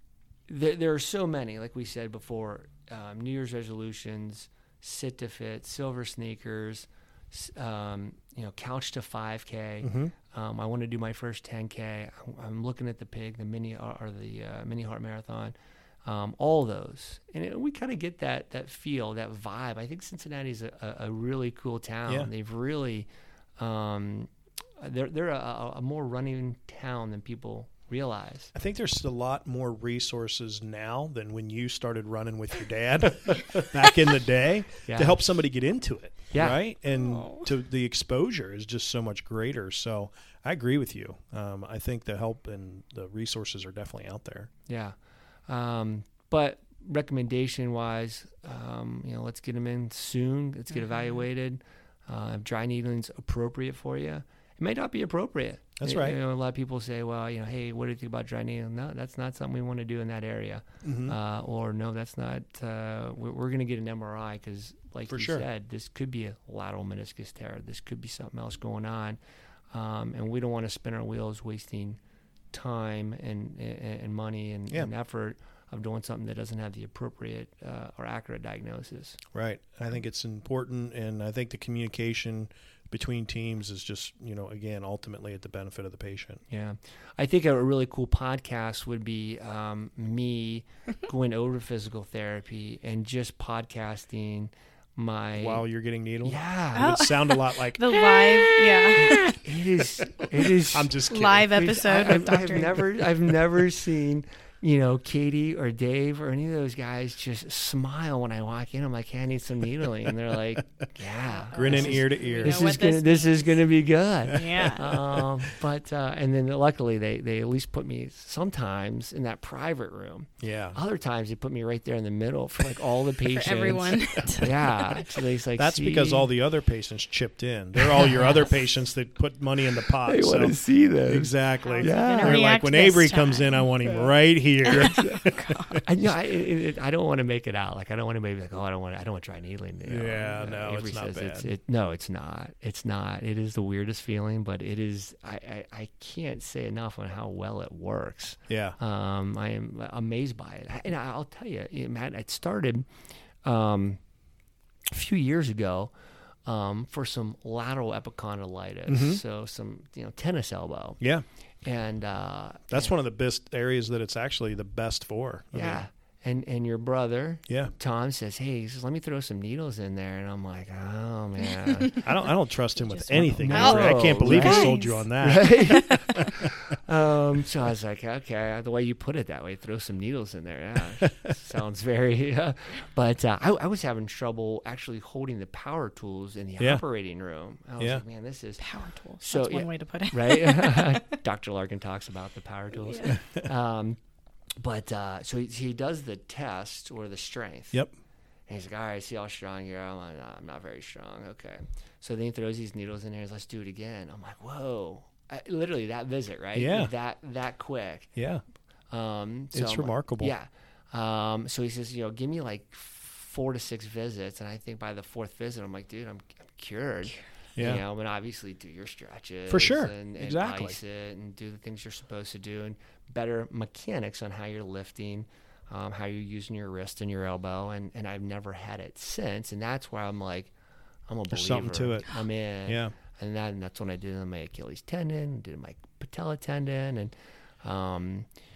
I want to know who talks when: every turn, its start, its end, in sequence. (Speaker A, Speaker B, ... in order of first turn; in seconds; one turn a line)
Speaker A: 0.5-28.5
Speaker B: 9.8-10.1
Speaker B: 28.5-44.5
Speaker A: 34.9-35.2
Speaker A: 36.3-36.6
Speaker C: 36.9-37.5
Speaker A: 44.7-45.0
Speaker A: 45.5-69.2
Speaker B: 55.8-56.2
Speaker B: 60.8-61.2
Speaker B: 65.1-65.5
Speaker A: 69.7-72.0
Speaker A: 72.5-79.2
Speaker B: 79.3-86.4
Speaker A: 86.5-95.6
Speaker B: 95.3-98.2
Speaker A: 96.2-97.0
Speaker C: 96.8-99.4
Speaker A: 99.0-126.3
Speaker B: 100.6-101.6
Speaker C: 101.1-102.8
Speaker C: 111.3-113.6
Speaker B: 111.5-112.8
Speaker C: 114.3-114.9
Speaker B: 120.4-120.8
Speaker C: 123.3-124.5
Speaker B: 125.6-130.6
Speaker A: 127.9-128.3
Speaker A: 130.1-132.4
Speaker B: 131.1-135.9
Speaker C: 131.6-133.7
Speaker C: 134.7-135.8
Speaker A: 135.8-152.9
Speaker B: 139.9-141.5
Speaker B: 148.5-148.8
Speaker A: 153.4-154.0
Speaker A: 154.9-155.9
Speaker A: 156.4-161.0
Speaker B: 158.9-159.2
Speaker A: 161.6-162.9
Speaker B: 162.7-165.8
Speaker A: 165.5-172.0
Speaker B: 167.5-167.7
Speaker B: 172.0-176.5
Speaker C: 172.8-175.1
Speaker A: 173.4-188.7
Speaker C: 175.7-176.2
Speaker C: 188.6-191.0
Speaker A: 189.2-194.0
Speaker C: 192.9-193.2
Speaker B: 193.1-193.5
Speaker A: 194.6-197.8
Speaker A: 198.5-208.1
Speaker B: 206.6-206.9
Speaker B: 208.2-208.4
Speaker A: 208.9-230.5
Speaker B: 209.5-210.3
Speaker B: 217.6-217.8
Speaker B: 219.5-220.8
Speaker A: 231.1-238.3
Speaker B: 231.3-232.1
Speaker B: 232.7-232.9